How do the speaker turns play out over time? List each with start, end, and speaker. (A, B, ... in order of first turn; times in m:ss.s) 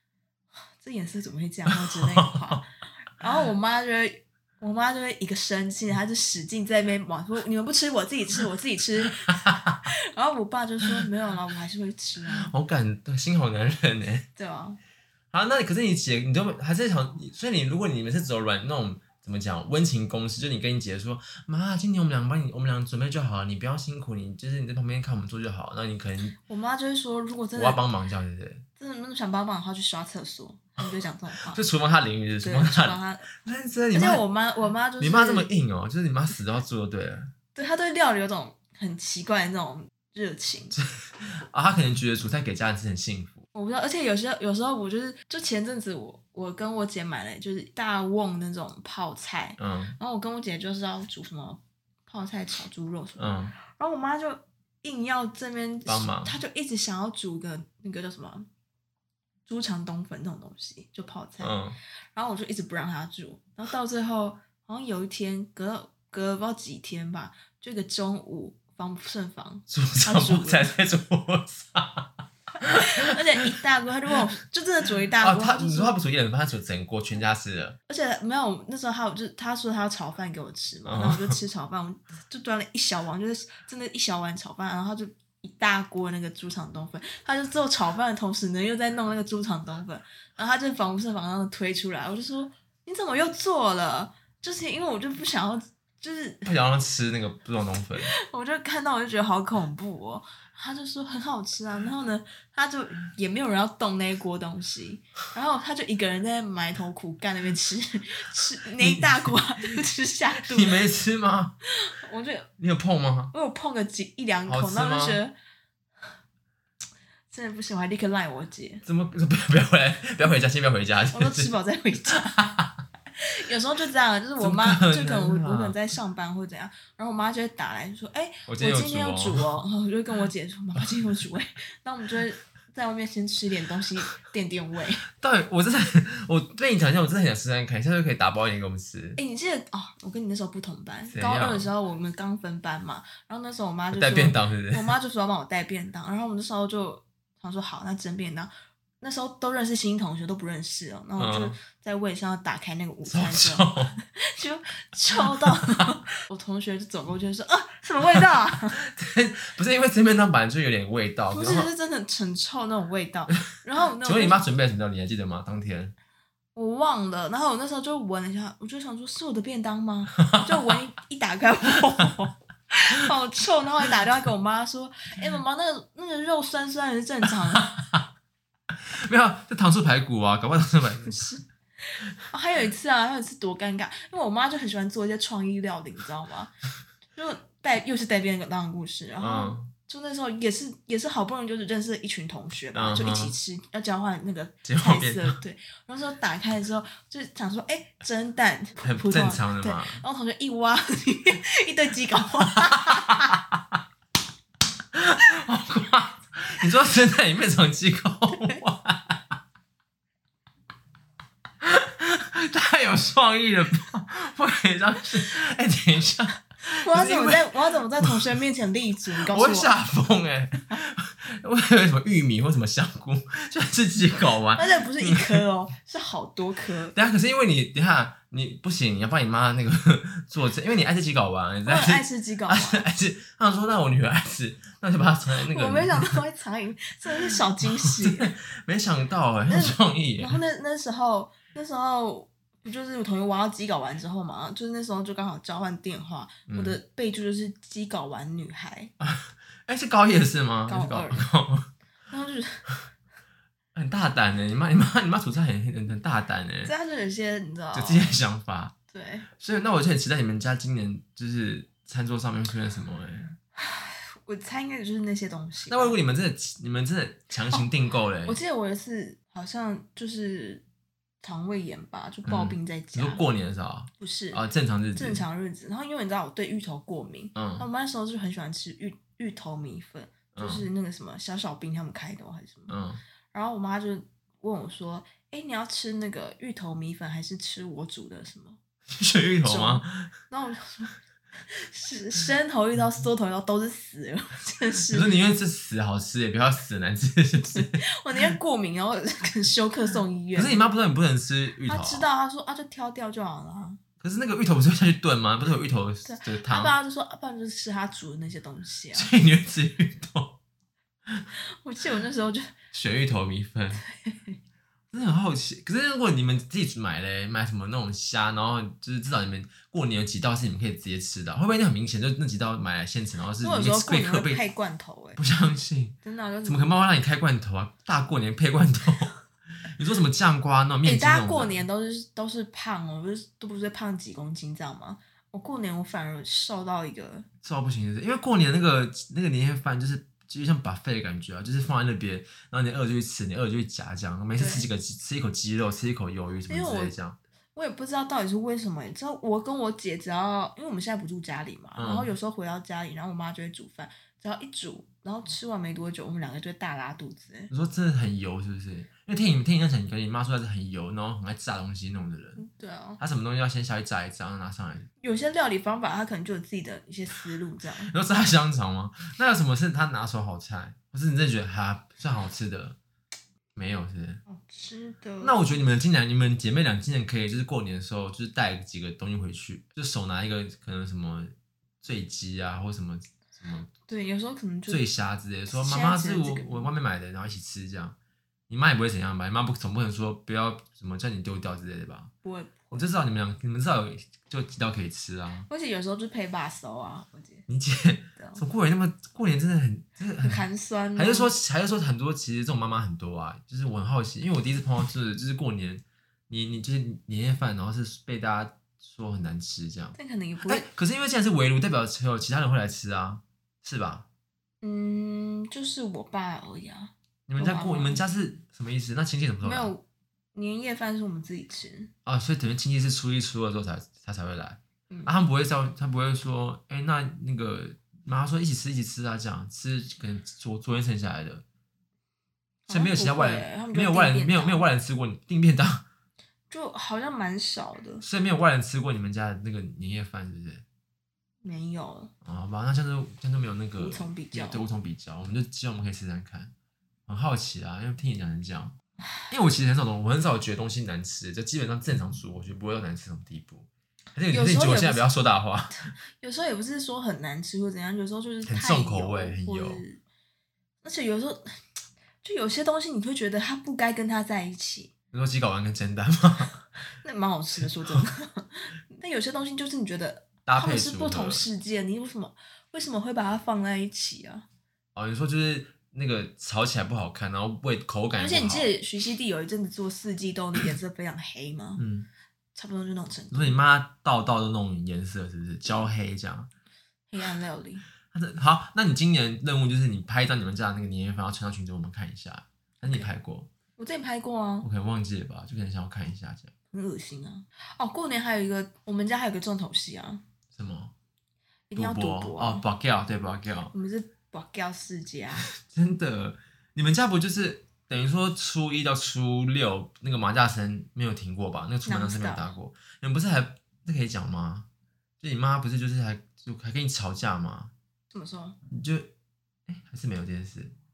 0:00.8-0:12.5 A
0:01.9-0:02.6 B
0:09.3-0:09.8 B
0:12.3-0:14.3 B
0:14.4-0:14.8 A
0:15.3-0:26.4 B
0:26.4-0:27.8 A
0:27.6-0:28.6 B
0:28.8-0:31.6 A
0:31.5-0:34.2 B
0:32.4-0:33.3 A
0:33.9-0:35.5 A
0:35.0-0:37.3 B
0:37.6-0:40.8 A
0:40.8-0:43.4 B
0:43.5-0:58.5 A
0:49.6-0:50.0 B
0:53.2-0:53.5 B
0:55.9-0:56.4 B
0:59.5-1:01.6 A
1:01.4-1:01.8 B
1:02.1-1:10.7 A
1:09.7-1:13.2 B
1:12.6-1:16.0 A
1:15.2-1:17.8 B
1:17.9-1:36.5 A
1:20.9-1:21.4 B
1:36.4-1:38.1 B
1:38.0-1:50.8 A
1:48.8-1:49.4 B
1:50.4-1:51.6 B
1:51.8-1:52.5 A
1:52.6-1:53.3 B
1:53.3-1:55.3 A
1:54.5-1:55.2 B
1:57.3-1:58.8 A
1:58.8-2:01.5 B
2:01.1-2:02.4 A
2:02.4-2:02.8 B
2:03.2-2:15.1 A
2:04.4-2:05.8 B
2:08.5-2:09.4 B
2:15.2-2:19.2 B
2:19.2-2:28.5 A
2:21.1-2:21.7 B
2:23.9-2:24.9 B
2:29.0-2:38.8 A
2:31.2-2:31.6 B
2:33.0-2:34.0 B
2:35.2-2:35.9 B
2:38.8-2:41.7 B
2:41.3-2:44.4 A
2:44.0-2:45.9 B
2:46.6-2:57.8 A
2:50.2-2:50.8 B
2:57.6-2:58.0 B
2:58.9-3:01.3 B
3:01.1-3:01.4 A
3:02.3-3:06.5 A
3:07.1-3:23.4 A
3:09.2-3:09.7 B
3:12.7-3:13.4 B
3:14.6-3:15.4 B
3:18.8-3:20.0 B
3:22.7-3:23.8 B
3:24.9-3:29.4 B
3:28.3-3:28.6 A
3:31.6-3:38.4 B
3:36.7-3:39.7 A
3:39.2-3:45.4 B
3:44.6-3:47.0 A
3:46.9-3:56.2 B
3:51.6-3:52.8 A
3:55.5-3:58.3 A
3:57.8-4:00.4 B
3:59.5-4:08.9 A
4:06.5-4:06.8 B
4:09.0-4:11.7 B
4:10.7-4:11.3 A
4:12.1-4:12.7 A
4:13.7-4:16.7 B
4:16.6-4:18.2 A
4:17.7-4:18.8 B
4:18.9-4:19.3 A
4:19.4-4:23.4 B
4:23.6-4:26.0 A
4:25.7-4:28.4 B
4:28.2-4:30.6 A
4:31.2-4:33.2 A
4:32.3-4:35.2 B
4:34.0-4:34.4 A
4:35.0-4:42.8 A
4:37.4-4:37.7 B
4:40.4-4:40.7 B
4:42.7-4:43.0 B
4:43.3-4:48.6 A
4:48.9-4:50.1 B
4:49.4-4:50.9 A
4:51.5-4:55.2 A
4:54.9-4:57.8 B
4:57.4-5:00.7 A
5:00.4-5:02.1 B
5:01.6-5:03.8 A
5:04.0-5:06.8 B
5:06.0-5:09.1 A
5:08.9-5:10.4 B
5:11.6-5:12.5 A
5:12.7-5:13.8 B
5:13.9-5:14.4 A
5:14.9-5:24.4 B
5:23.4-5:25.2 A
5:25.2-5:29.1 B
5:26.0-5:26.7 A
5:29.7-5:31.6 B
5:30.8-5:37.3 A
5:37.4-5:47.2 B
5:44.4-5:44.7 A
5:46.5-5:47.0 A
5:47.6-5:57.5 A
5:51.8-5:52.1 B
5:57.5-6:02.4 B
6:02.4-6:03.0 A
6:03.0-6:04.9 B
6:05.0-6:07.9 A
6:07.8-6:12.8 B
6:13.6-6:14.2 B
6:14.3-6:15.5 A
6:15.2-6:23.7 B
6:23.9-6:24.9 A
6:24.7-6:28.0 B
6:25.5-6:26.7 A
6:28.5-6:32.1 B
6:32.2-6:32.9 A
6:32.7-6:35.5 B
6:35.5-6:37.5 A
6:37.5-6:54.1 B
6:38.2-6:38.4 A
6:40.2-6:41.3 A
6:50.0-6:50.7 A
6:54.6-6:58.0 A
6:57.3-6:59.7 B
6:59.4-6:59.8 A
7:00.4-7:01.9 A
7:02.1-7:11.4 B
7:04.9-7:05.2 A
7:12.7-7:14.6 A
7:12.7-7:15.8 B
7:16.5-7:18.0 A
7:18.0-7:20.6 B
7:21.4-7:22.1 A
7:22.2-7:26.5 B
7:23.8-7:24.7 A
7:27.1-7:28.8 B
7:29.3-7:35.9 B
7:34.3-7:35.1 A
7:36.2-7:40.0 A
7:38.5-7:39.8 B
7:40.8-7:41.4 A
7:42.2-7:44.9 A
7:45.1-7:46.5 B
7:47.0-7:54.5 A
7:50.5-7:51.5 B
7:55.0-7:58.7 B
7:58.2-8:01.8 A
8:01.8-8:02.1 B
8:02.6-8:03.6 A
8:03.3-8:06.5 B
8:07.1-8:07.9 A
8:08.1-8:13.5 B
8:13.8-8:14.7 A
8:14.6-8:16.5 B
8:16.7-8:20.2 A
8:20.5-8:20.9 B
8:21.7-8:22.6 A
8:21.7-8:23.7 B
8:23.7-8:25.5 A
8:25.5-8:34.7 B
8:31.8-8:32.5 A
8:35.2-8:37.7 B
8:38.1-8:38.6 A
8:38.7-8:39.1 B
8:39.7-8:40.7 B